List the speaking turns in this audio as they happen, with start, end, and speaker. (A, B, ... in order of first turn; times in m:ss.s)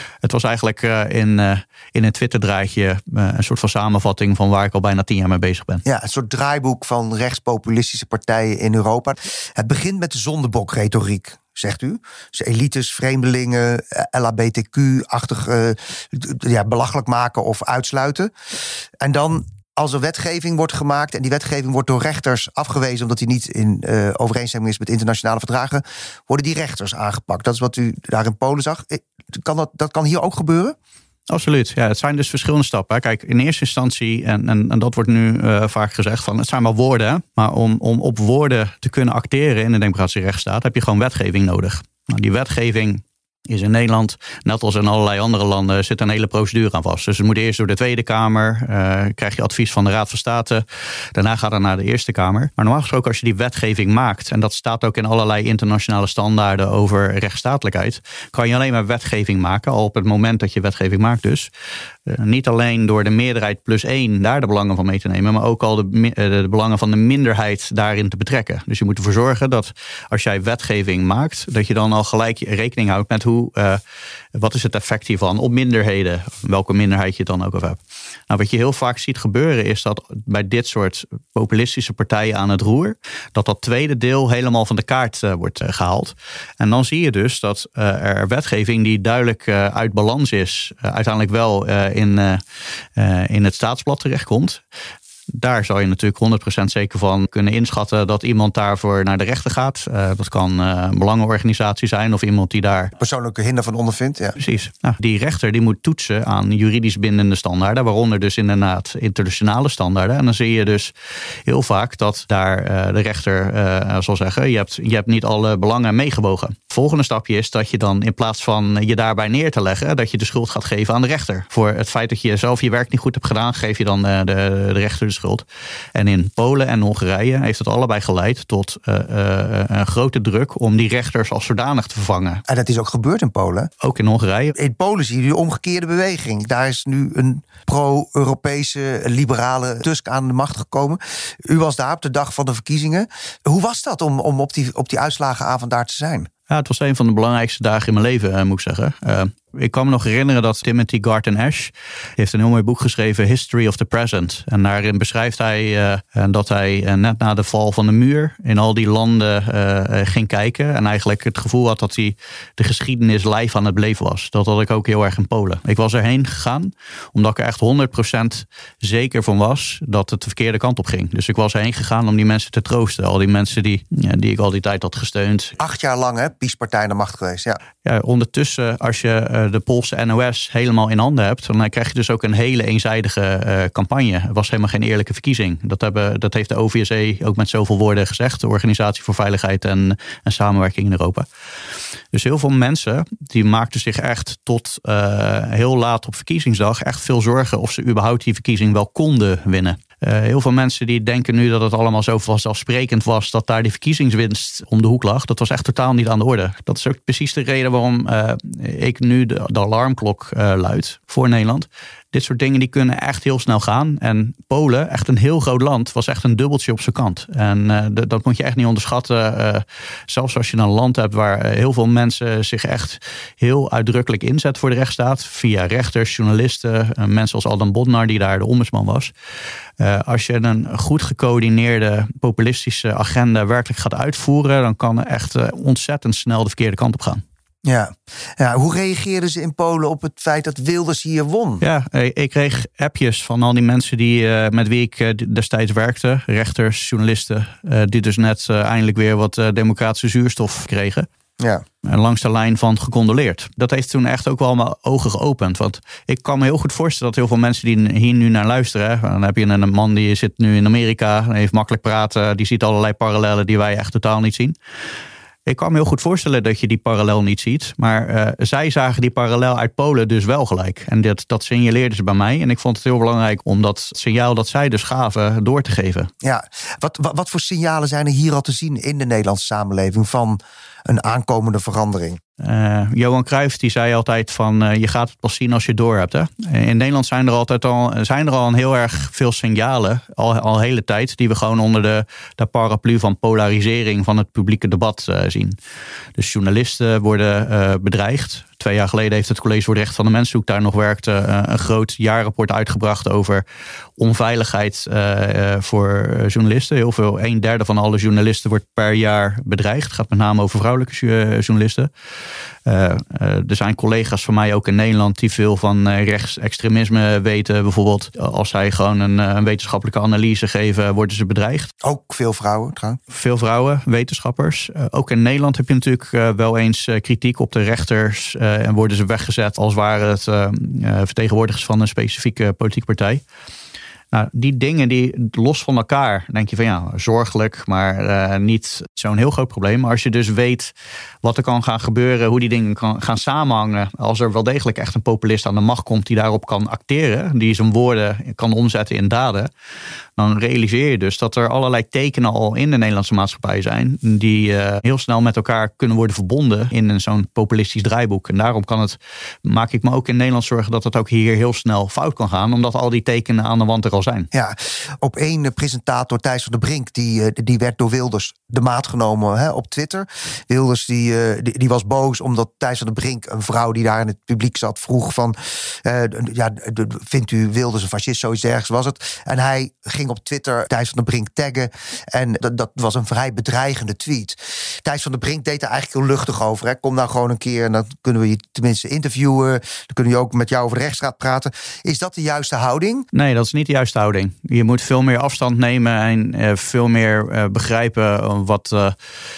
0:00.2-0:05.8 A
0:05.8-0:18.3 B
0:19.0-0:30.8 B
0:31.3-1:01.5 A
1:02.1-1:13.8 A
1:14.3-1:32.4 A
1:32.9-1:34.6 A
1:35.3-1:42.9 A
1:43.0-1:44.4 B
1:44.4-1:50.9 A
1:51.4-2:12.4 A
2:12.5-2:13.7 B
2:13.8-2:14.6 A
2:14.5-2:26.3 B
2:26.5-2:55.6 A
2:55.6-2:57.6 B
2:57.8-3:11.2 A
3:12.1-3:49.1 A
3:49.8-3:57.2 A
3:57.6-4:01.6 B
4:01.6-4:11.1 A
4:11.4-4:11.6 B
4:11.8-4:24.5 A
4:25.4-4:36.1 A
4:36.2-4:42.2 B
4:42.4-4:55.6 A
4:56.2-5:03.4 A
5:04.0-5:11.9 A
5:12.6-5:21.7 A
5:21.8-5:23.0 B
5:23.1-5:33.2 A
5:34.1-5:49.5 A
5:50.2-6:04.3 A
6:04.3-6:33.1 B
6:33.1-6:39.0 A